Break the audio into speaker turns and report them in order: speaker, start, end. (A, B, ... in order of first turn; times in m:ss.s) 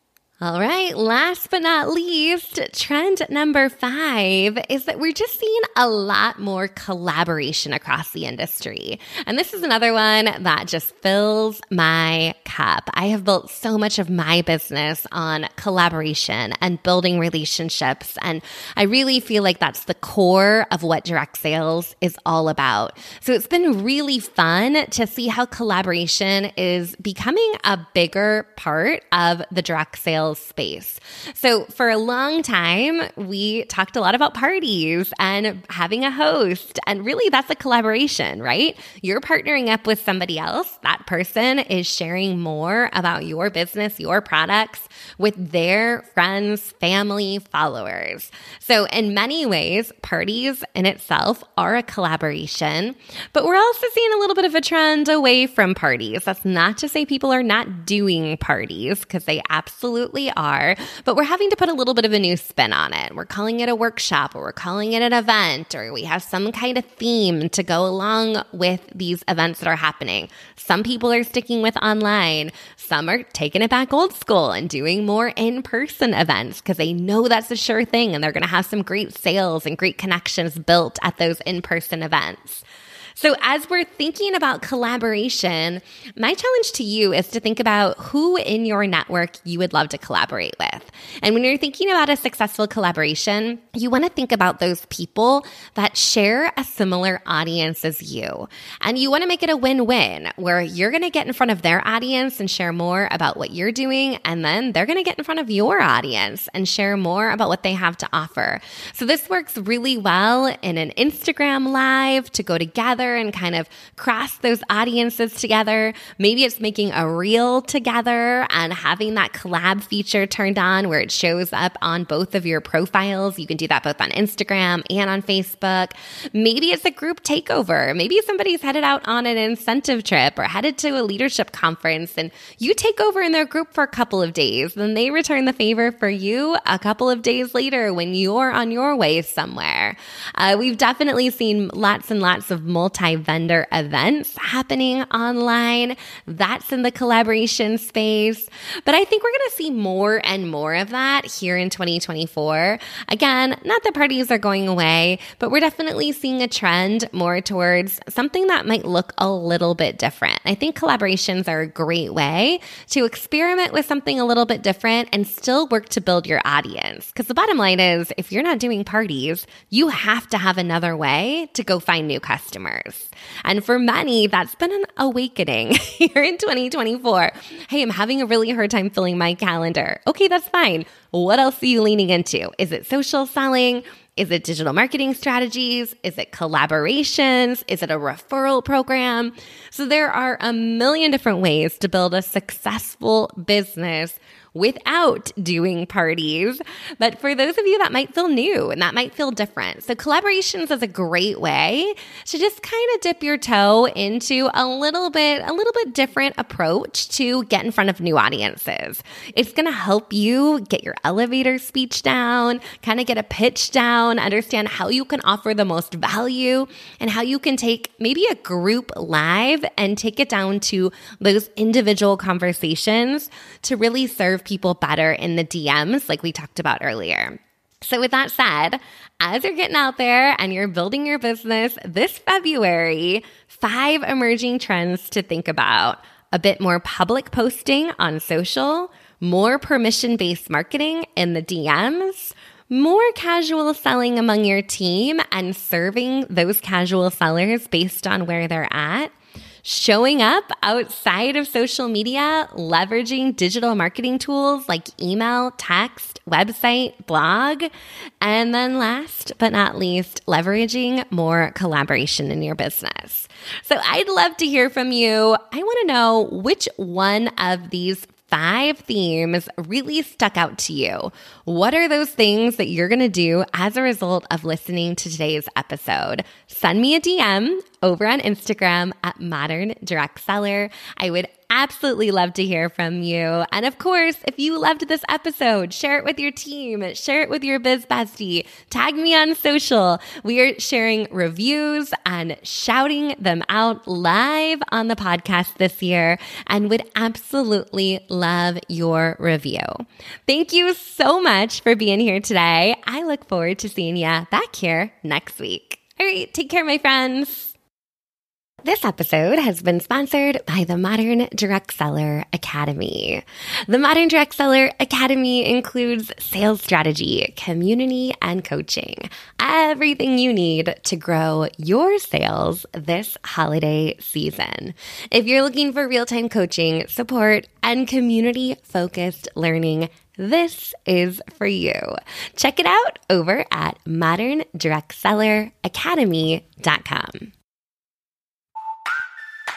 0:00.4-1:22.6 A
1:23.2-4:17.7 A
4:18.2-5:07.5 A
5:08.6-5:37.3 A